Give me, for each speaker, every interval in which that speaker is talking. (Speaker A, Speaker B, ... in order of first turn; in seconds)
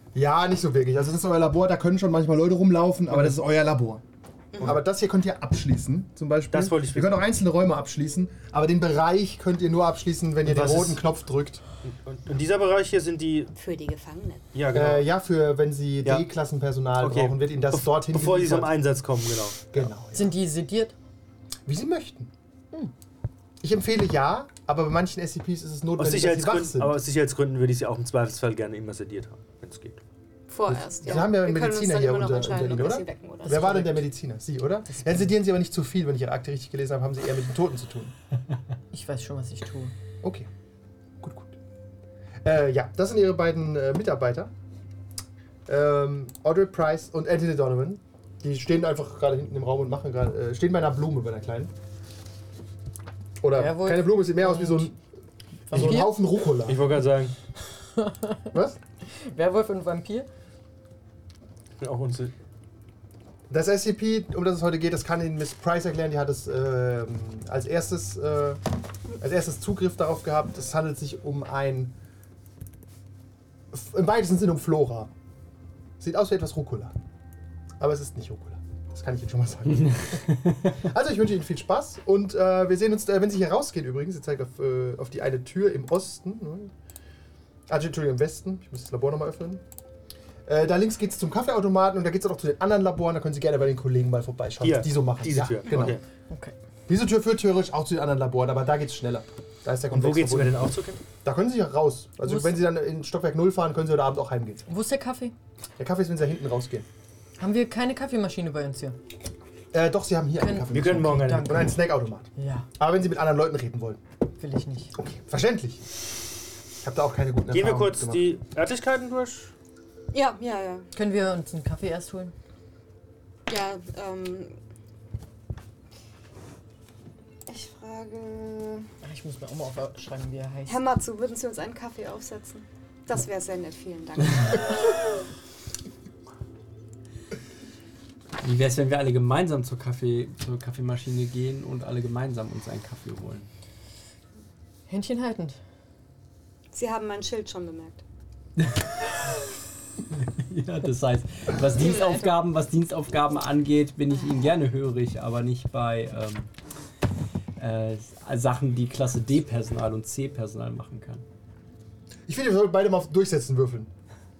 Speaker A: 0.1-4.0, 4.6-11.6, 14.7-18.8, 19.7-20.4, 21.6-22.3, 23.6-27.0, 30.6-38.1, 40.2-40.5, 41.2-41.5, 42.4-44.5, 45.7-51.7, 53.4-55.0, 55.7-56.9, 58.5-58.8, 63.5-68.6, 69.2-71.9, 73.7-75.1, 76.0-76.9, 77.8-86.7, 87.7-89.6, 90.5-96.0, 96.9-104.6, 105.8-106.8, 109.7-114.0, 115.0-115.8, 116.8-118.3, 162.3-163.9
Speaker B: 6.5-7.2, 10.4-11.0, 11.8-13.5, 14.5-15.1, 17.0-19.8, 25.9-30.0, 56.5-57.3, 61.8-62.3, 94.6-96.0, 99.9-101.0, 110.7-111.5, 117.5-119.5
Speaker C: 13.5-14.4, 30.5-33.8, 120.1-120.9, 123.5-124.5, 127.5-128.9, 130.7-135.2, 146.7-148.0, 151.8-152.3
Speaker D: 20.1-20.9, 33.4-34.1, 38.9-39.9, 53.5-54.9, 55.7-56.2, 57.9-58.5, 59.2-60.3, 102.2-102.6, 104.7-105.3, 107.4-109.0, 110.4-111.8, 112.4-112.7, 114.4-114.9, 120.9-122.3, 129.0-130.7, 144.9-145.6
Speaker E: 138.4-143.5, 150.2-156.5, 157.6-161.2